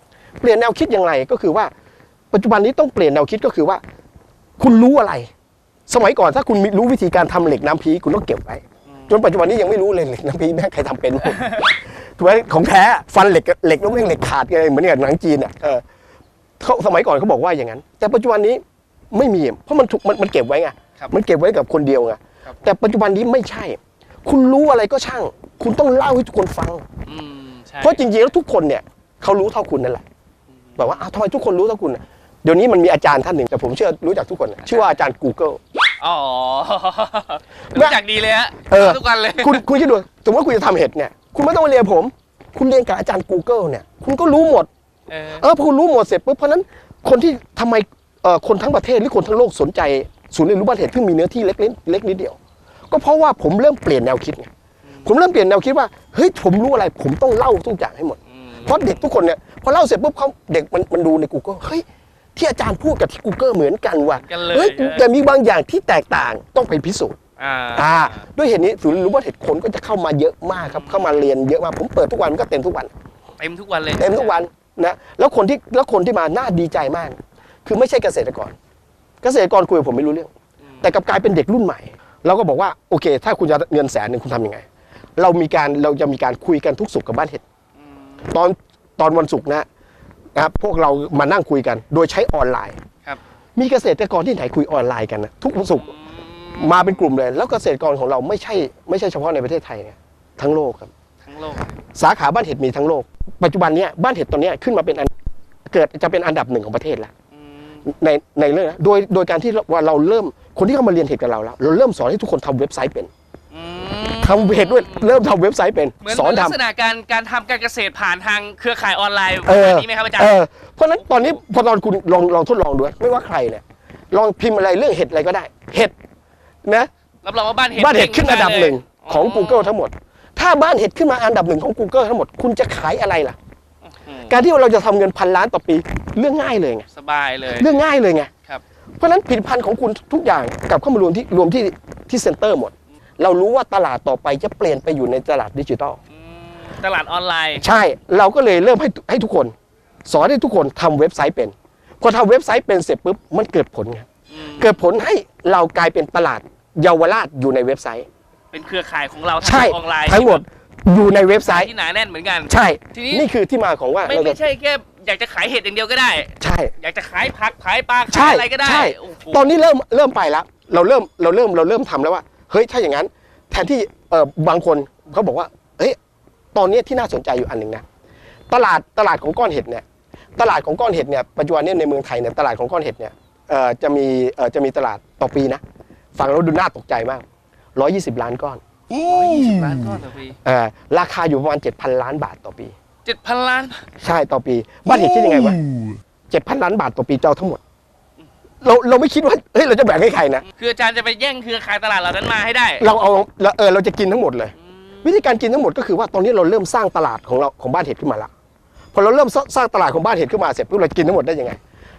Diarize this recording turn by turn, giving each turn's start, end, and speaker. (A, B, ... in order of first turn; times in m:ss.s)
0:00.4-0:01.7 A
0:02.3-0:03.8 A
0:04.6-0:05.3 A
0:05.9-0:15.8 A
0:08.9-0:09.2 B
0:11.3-0:11.6 B
0:16.6-0:18.6 A
0:19.1-0:26.8 A
0:27.1-0:28.0 B
0:27.8-0:30.0 A
0:30.7-0:31.1 B
0:30.8-0:35.6 A
0:34.6-0:34.9 B
0:36.0-0:39.6 B
0:37.7-0:38.0 A
0:38.7-0:44.7 A
0:45.1-0:45.4 B
0:45.4-0:52.4 A
0:52.9-0:54.5 A
0:55.0-1:01.8 A
0:58.3-0:59.1 B
1:02.4-1:07.2 A
1:04.1-1:05.1 B
1:07.4-1:08.2 B
1:07.8-1:12.9 A
1:10.6-1:11.1 B
1:13.4-1:14.4 B
1:14.0-1:18.6 A
1:19.2-1:20.3 A
1:20.8-1:24.6 A
1:25.2-1:27.4 A
1:27.8-1:28.3 B
1:28.3-1:29.7 A
1:30.4-1:32.8 A
1:33.6-1:35.9 A
1:35.7-1:37.1 B
1:36.6-1:40.9 A
1:41.2-1:41.8 B
1:42.0-1:45.1 A
1:45.7-1:47.1 A
1:47.3-1:47.8 B
1:47.9-1:53.1 A
1:53.5-1:55.1 B
1:54.2-1:56.6 A
1:56.0-2:00.4 B
1:59.5-2:05.9 A
2:01.0-2:01.4 B
2:06.6-2:06.9 A
2:07.2-2:09.7 B
2:07.7-2:13.4 A
2:13.8-2:14.4 B
2:14.3-2:16.9 A
2:16.9-2:17.8 B
2:17.6-2:18.3 A
2:19.0-2:26.0 A
2:26.1-2:27.6 B
2:27.6-2:29.5 A
2:30.1-2:34.1 A
2:34.3-2:34.8 B
2:34.6-2:38.1 A
2:38.5-2:40.4 B
2:39.4-2:41.7 A
2:41.4-2:43.3 B
2:42.5-2:44.4 A
2:44.0-2:49.5 B
2:46.4-2:46.7 A
2:48.1-2:56.0 A
2:56.6-2:57.8 A
2:58.5-2:59.8 A
3:00.4-3:05.6 A
3:06.2-3:08.6 A
3:08.9-3:10.4 B
3:10.4-3:12.7 A
3:13.0-3:13.8 B
3:14.0-3:15.6 A
3:16.3-3:17.6 A
3:18.6-3:20.4 A
3:20.5-3:22.9 B
3:22.8-3:28.3 A
3:24.6-3:25.2 B
3:28.9-3:31.6 A